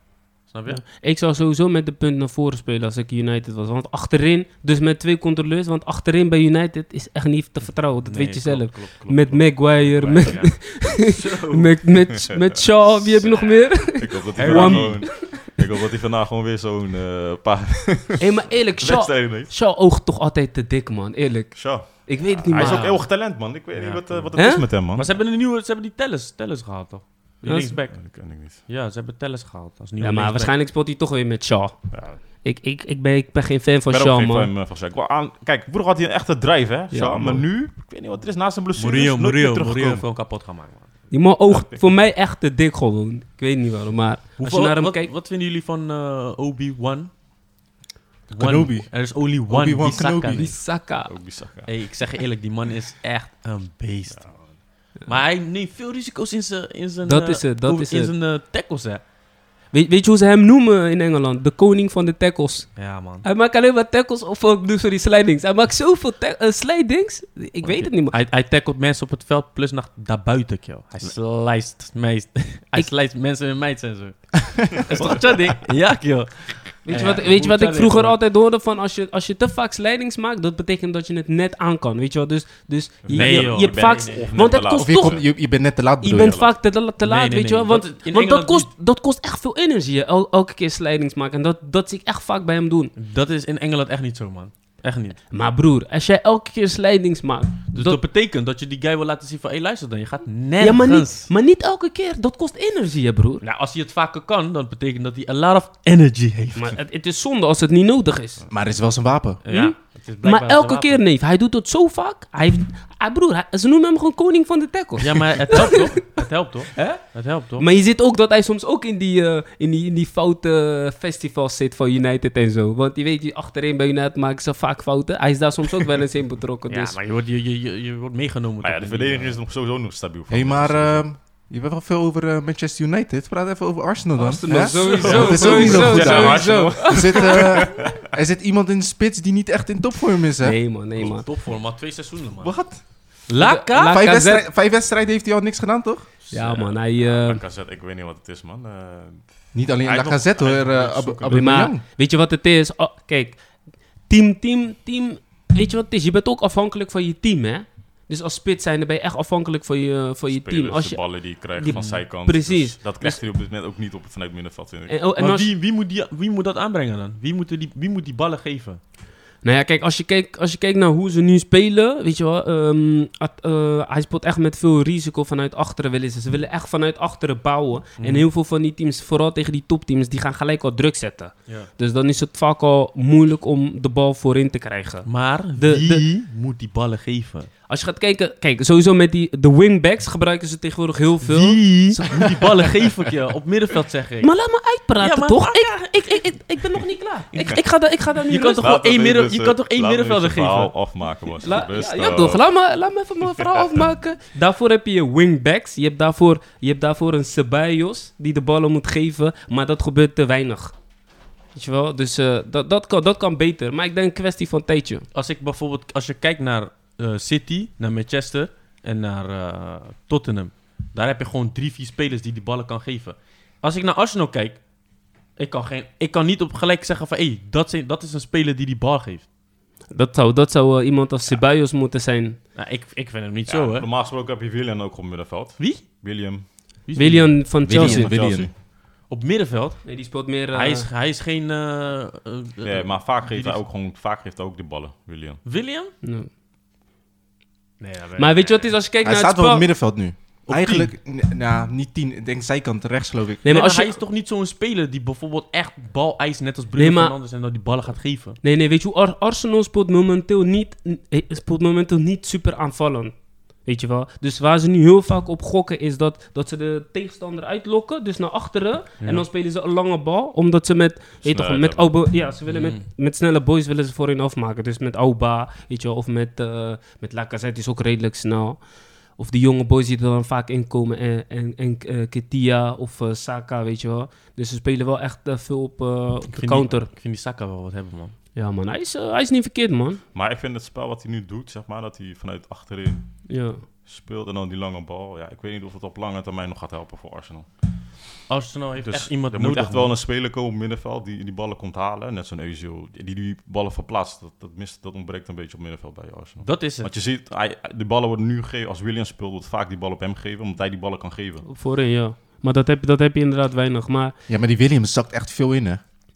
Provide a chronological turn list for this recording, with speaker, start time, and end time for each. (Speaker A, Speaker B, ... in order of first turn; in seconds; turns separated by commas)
Speaker A: 0.5-0.8, Speaker B: 0.7-15.6, Speaker A: 8.0-11.8, Speaker C: 10.0-10.3, Speaker C: 12.3-19.5, Speaker A: 14.3-15.1, Speaker B: 18.2-23.0, Speaker C: 21.5-25.1, Speaker A: 22.5-30.5, Speaker B: 24.3-24.7, Speaker B: 27.4-27.8, Speaker C: 27.9-28.6, Speaker B: 30.0-34.5, Speaker C: 31.9-32.2, Speaker C: 33.9-40.0, Speaker B: 36.9-37.4, Speaker A: 38.7-40.9, Speaker B: 41.1-45.1, Speaker C: 41.5-41.9, Speaker A: 44.4-47.1, Speaker A: 48.3-50.5, Speaker D: 48.3-50.5, Speaker B: 50.3-51.2, Speaker C: 50.9-51.8, Speaker A: 51.6-59.0, Speaker C: 54.1-54.6, Speaker B: 57.0-58.1, Speaker B: 59.7-68.2, Speaker A: 62.8-63.2, Speaker A: 67.6-78.2, Speaker B: 76.8-85.3, Speaker C: 83.0-85.3, Speaker A: 83.1-84.5, Speaker D: 84.7-86.4, Speaker B: 86.0-92.9, Speaker C: 86.1-86.5, Speaker A: 87.0-88.7, Speaker A: 93.0-95.2, Speaker B: 95.3-98.0, Speaker A: 97.7-101.3, Speaker B: 100.6-103.4, Speaker A: 103.4-106.8, Speaker B: 106.5-108.5, Speaker D: 108.5-109.4, Speaker A: 109.4-111.0, Speaker B: 109.5-116.2, Speaker A: 115.0-117.7, Speaker B: 116.8-127.0, Speaker A: 126.7-129.4, Speaker C: 128.6-131.1, Speaker D: 130.3-140.6, Speaker B: 134.2-137.7, Speaker C: 134.8-137.8, Speaker A: 135.0-136.0, Speaker B: 140.4-141.3, Speaker A: 140.9-142.7, Speaker D: 142.4-143.2, Speaker A: 143.3-144.1, Speaker B: 143.4-144.4, Speaker D: 143.8-146.1, Speaker B: 146.3-147.4, Speaker C: 146.3-151.5, Speaker D: 149.5-151.8, Speaker B: 151.3-163.2, Speaker C: 160.3-165.0, Speaker A: 161.7-162.0, Speaker B: 164.9-165.5, Speaker A: 165.2-168.8, Speaker B: 169.4-186.1, Speaker A: 178.0-178.3, Speaker A: 185.1-187.5, Speaker B: 187.7-192.9, Speaker A: 191.2-194.3, Speaker B: 194.2-198.7, Speaker A: 195.0-197.6, Speaker A: 198.3-200.7, Speaker C: 198.6-202.4, Speaker B: 201.4-210.8, Speaker C: 203.2-203.8, Speaker B: 211.5-215.1, Speaker A: 215.1-224.6, Speaker A: 225.3-229.3, Speaker B: 229.9-232.4, Speaker A: 232.5-233.9, Speaker C: 233.5-236.8, Speaker A: 235.6-235.8, Speaker A: 236.5-237.7, Speaker B: 236.9-238.1, Speaker D: 237.6-238.5, Speaker C: 237.7-238.5, Speaker A: 239.0-243.6, Speaker B: 239.8-240.9, Speaker C: 242.6-245.4, Speaker A: 245.4-245.9, Speaker B: 246.0-246.3, Speaker A: 247.8-248.7, Speaker B: 248.2-249.6, Speaker D: 249.0-253.4, Speaker A: 250.5-250.9, Speaker B: 253.4-254.0, Speaker A: 253.4-258.4, Speaker B: 256.8-257.1, Speaker B: 258.4-286.9, Speaker A: 269.0-269.3, Speaker C: 271.2-272.1, Speaker A: 272.5-272.8, Speaker A: 286.3-288.1, Speaker B: 288.3-290.0, Speaker C: 290.1-298.1, Speaker B: 293.3-293.6, Speaker A: 298.3-300.0, Speaker C: 298.8-311.4, Speaker A: 306.4-306.9, Speaker B: 311.4-314.1, Speaker D: 314.3-315.8